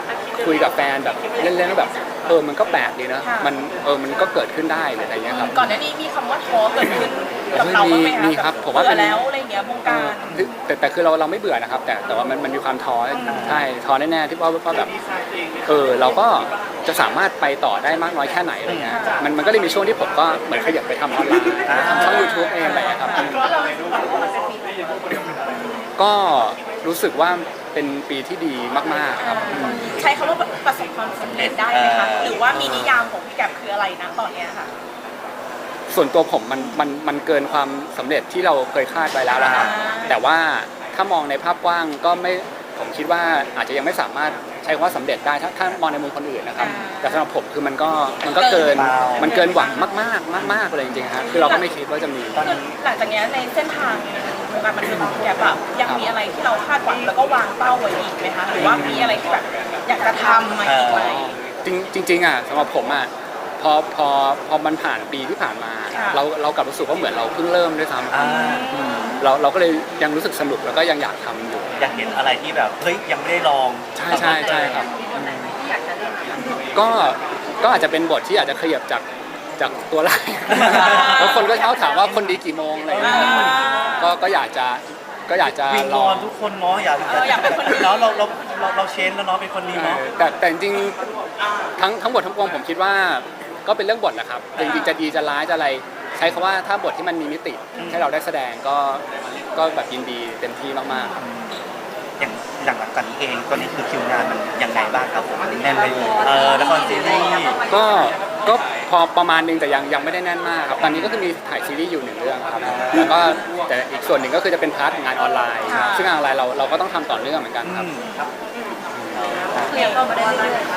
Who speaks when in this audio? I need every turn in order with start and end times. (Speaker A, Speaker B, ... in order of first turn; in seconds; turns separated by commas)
Speaker A: 0.4-5.7, Speaker B: 3.2-3.6, Speaker B: 5.3-10.4, Speaker A: 7.5-9.2, Speaker A: 9.8-14.9, Speaker B: 13.1-13.6, Speaker C: 13.3-13.7, Speaker A: 15.7-23.3, Speaker C: 18.6-19.0, Speaker B: 18.9-19.2, Speaker C: 21.6-22.3, Speaker B: 21.9-23.3, Speaker A: 26.0-29.9, Speaker B: 29.2-34.7, Speaker C: 31.3-32.4, Speaker A: 32.5-33.1, Speaker A: 35.9-52.5, Speaker B: 36.5-36.8, Speaker B: 39.3-40.2, Speaker C: 39.3-39.7, Speaker B: 46.6-47.3, Speaker B: 48.3-49.8, Speaker C: 48.7-49.4, Speaker C: 50.4-50.6, Speaker B: 51.2-51.7, Speaker C: 52.3-52.6, Speaker B: 52.4-61.3, Speaker A: 55.8-56.1, Speaker A: 58.6-59.2, Speaker C: 58.6-59.0, Speaker C: 60.6-61.1, Speaker A: 60.8-71.8, Speaker B: 65.9-66.2, Speaker C: 68.1-68.7, Speaker B: 68.2-69.2, Speaker C: 71.8-74.9, Speaker A: 73.9-75.5, Speaker A: 76.7-79.0, Speaker A: 79.6-86.3, Speaker C: 80.5-81.4, Speaker B: 80.5-82.0, Speaker C: 82.0-82.4, Speaker C: 82.9-83.7, Speaker B: 83.0-84.2, Speaker C: 85.4-90.1, Speaker B: 87.0-88.0, Speaker A: 89.7-91.0, Speaker A: 91.8-101.2, Speaker B: 94.6-95.0, Speaker C: 97.8-98.1, Speaker C: 101.2-101.6, Speaker C: 102.2-107.6, Speaker A: 107.7-117.9, Speaker C: 110.8-111.2, Speaker C: 112.6-113.2, Speaker B: 115.7-116.1, Speaker C: 117.6-118.2, Speaker A: 118.9-119.2, Speaker B: 119.6-120.1